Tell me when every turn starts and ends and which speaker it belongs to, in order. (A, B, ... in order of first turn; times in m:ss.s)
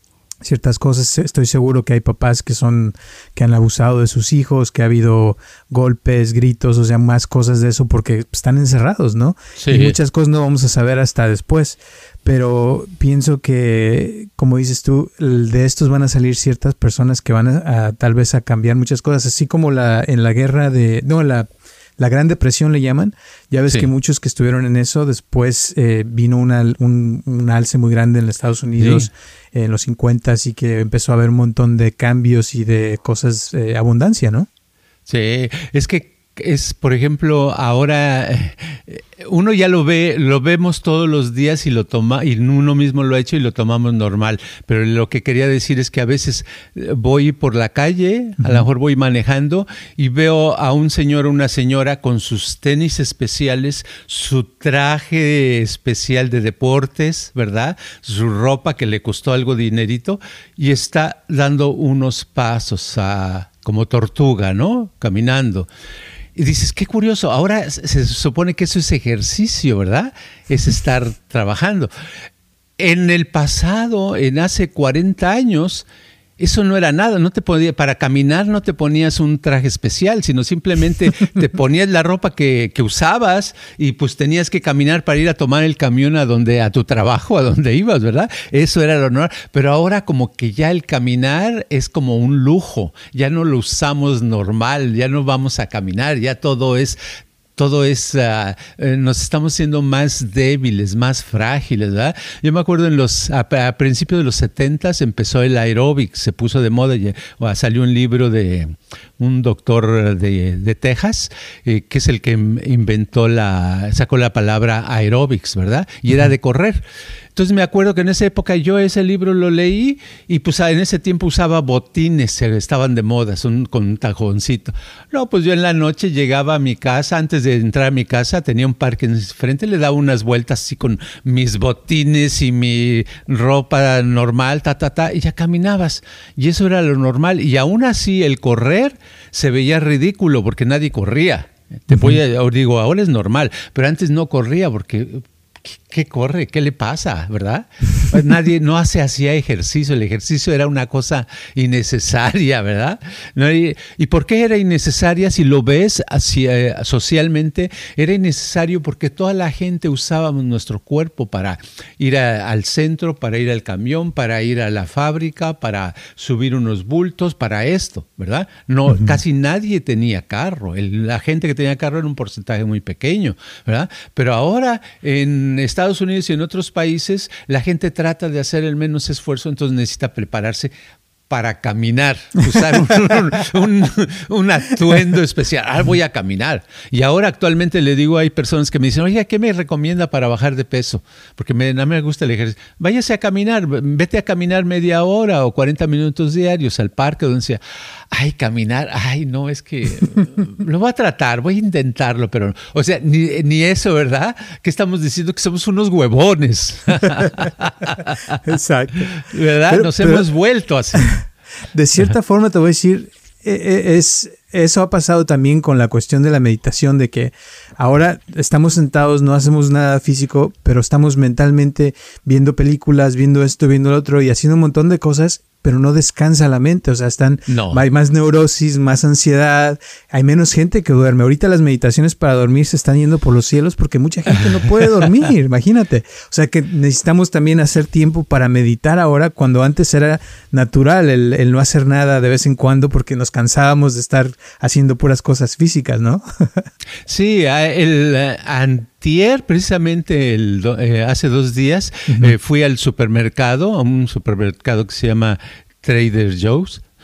0:00.4-0:34.5 A
0:09.6-0:10.0 B
0:28.8-0:29.1 B
0:35.1-1:05.7 B
0:48.4-0:48.6 A
1:06.4-1:11.9 B
1:12.8-1:15.9 B
1:16.4-1:37.0 B
1:37.6-1:56.8 B
1:57.4-3:00.7 B
2:21.9-2:22.2 A
3:01.3-3:28.4 B
3:28.4-3:30.3 A
3:29.1-3:31.1 B
3:31.7-4:06.6 A
3:47.5-3:47.8 B
4:07.1-4:16.8 B
4:12.1-4:12.4 A